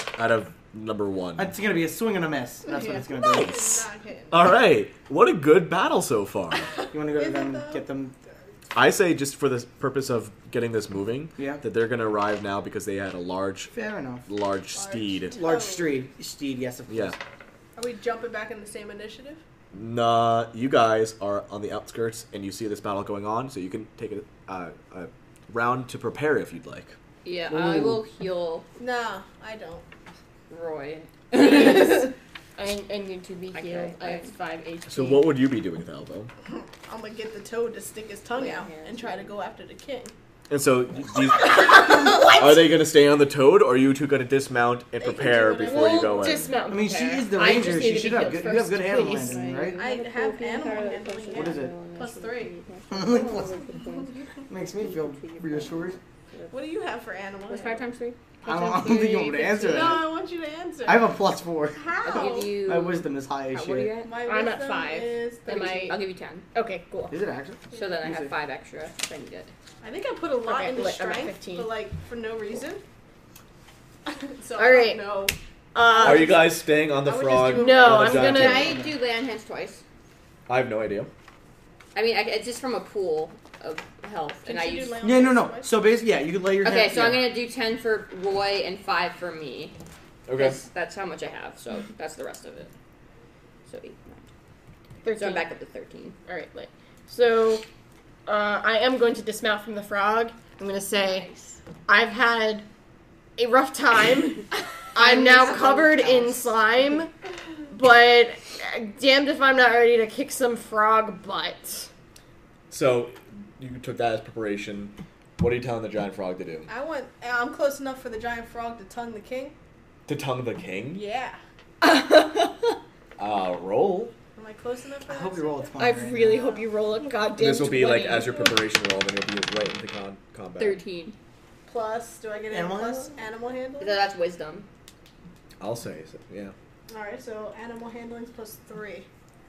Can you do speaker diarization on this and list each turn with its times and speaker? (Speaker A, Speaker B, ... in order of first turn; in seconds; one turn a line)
Speaker A: 0.2-1.5
Speaker B: 1.4-3.6
Speaker C: 2.6-4.4
Speaker A: 3.1-6.7
Speaker B: 6.9-8.2
Speaker C: 7.1-7.8
Speaker A: 8.8-13.7
Speaker B: 11.4-11.6
Speaker B: 13.7-14.2
Speaker A: 14.3-15.4
Speaker C: 14.8-16.1
Speaker B: 15.3-17.2
Speaker A: 16.9-17.2
Speaker C: 17.8-19.4
Speaker A: 19.7-27.0
Speaker D: 27.2-28.7
Speaker B: 27.5-28.0
Speaker C: 28.8-29.9
Speaker D: 30.5-32.1
Speaker C: 31.3-32.1
Speaker E: 32.6-35.2
Speaker D: 33.5-34.3
Speaker A: 34.9-36.3
Speaker C: 36.5-40.1
Speaker D: 38.3-39.4
Speaker A: 40.5-46.5
Speaker E: 41.5-42.7
Speaker C: 45.0-46.4
Speaker E: 45.6-49.8
Speaker B: 46.7-49.8
Speaker D: 49.6-56.5
Speaker C: 49.8-52.5
Speaker B: 51.3-51.8
Speaker B: 52.9-53.6
Speaker B: 54.5-56.0
Speaker C: 56.5-57.9
Speaker D: 57.5-58.2
Speaker E: 58.4-60.0
Speaker B: 58.5-60.1
Speaker D: 59.4-59.8
Speaker C: 59.7-61.1
Speaker B: 60.9-63.9
Speaker C: 61.7-62.5
Speaker D: 62.0-64.2
Speaker C: 64.0-66.0
Speaker E: 64.2-66.0
Speaker D: 65.5-66.5
Speaker E: 66.5-67.2
Speaker B: 67.1-68.3
Speaker D: 67.7-69.5
Speaker C: 69.8-72.8
Speaker E: 70.4-71.7
Speaker C: 74.1-78.4
Speaker E: 74.6-75.0
Speaker E: 75.7-76.5
Speaker A: 76.0-78.8
Speaker E: 77.5-78.8
Speaker D: 78.2-79.8
Speaker B: 78.6-78.9
Speaker A: 80.5-81.1
Speaker D: 81.9-85.0
Speaker C: 84.5-85.7
Speaker B: 85.0-87.3
Speaker D: 86.6-89.8
Speaker A: 90.3-90.6
Speaker D: 90.3-92.7
Speaker D: 93.7-94.2
Speaker E: 95.0-95.5
Speaker D: 95.2-96.2
Speaker E: 96.2-97.6
Speaker E: 98.3-102.7
Speaker C: 101.0-101.3
Speaker E: 103.4-107.1
Speaker D: 105.0-106.5
Speaker E: 107.7-111.9
Speaker A: 112.7-116.7
Speaker C: 116.7-119.5
Speaker A: 120.1-121.0
Speaker C: 120.9-121.4
Speaker E: 121.8-122.8
Speaker A: 123.2-124.1
Speaker C: 124.3-125.8
Speaker B: 125.1-126.6
Speaker E: 125.8-128.6
Speaker A: 127.4-130.8
Speaker D: 130.6-131.2
Speaker C: 131.7-134.0
Speaker B: 132.5-133.1
Speaker D: 133.8-134.7
Speaker A: 135.6-136.5
Speaker C: 136.9-139.1